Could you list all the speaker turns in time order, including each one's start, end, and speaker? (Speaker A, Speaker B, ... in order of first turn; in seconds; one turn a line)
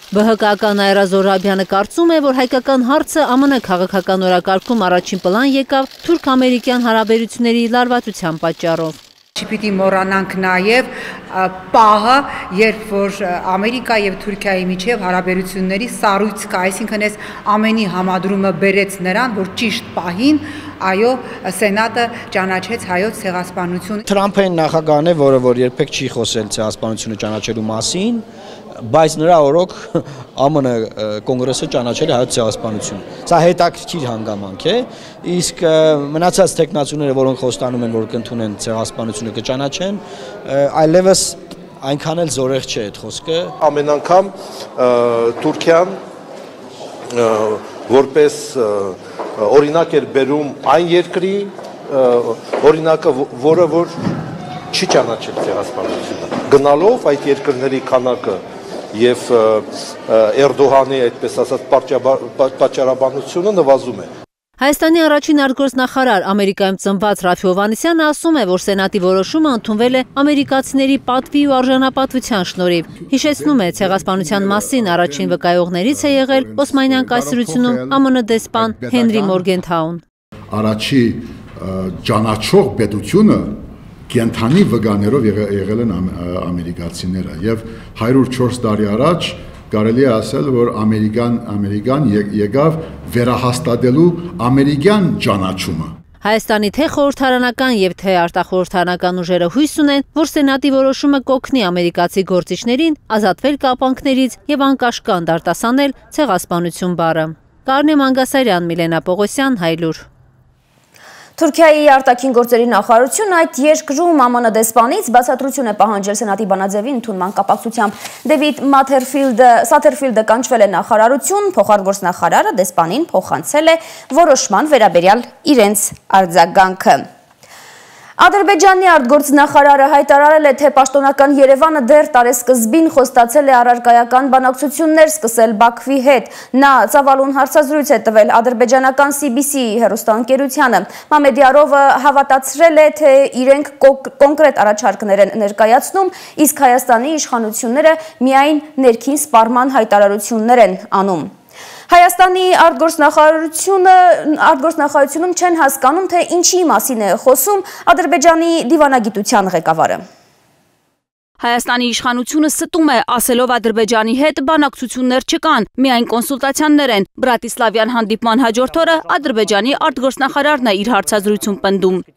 Speaker A: 0.1-9.0
Speaker B: 9.4-24.0
Speaker C: 24.1-28.2
Speaker C: 28.8-43.5
Speaker D: 43.6-46.0
Speaker D: 47.1-53.9
Speaker D: 54.7-58.4
Speaker D: 58.9-64.1
Speaker A: 64.6-80.0
Speaker E: 73.1-78.0
Speaker E: 78.5-79.5
Speaker E: 80.5-96.0
Speaker A: 96.2-110.1
Speaker F: 111.4-127.0
Speaker F: 128.2-151.3
Speaker F: 151.9-160.0
Speaker G: 161.4-172.0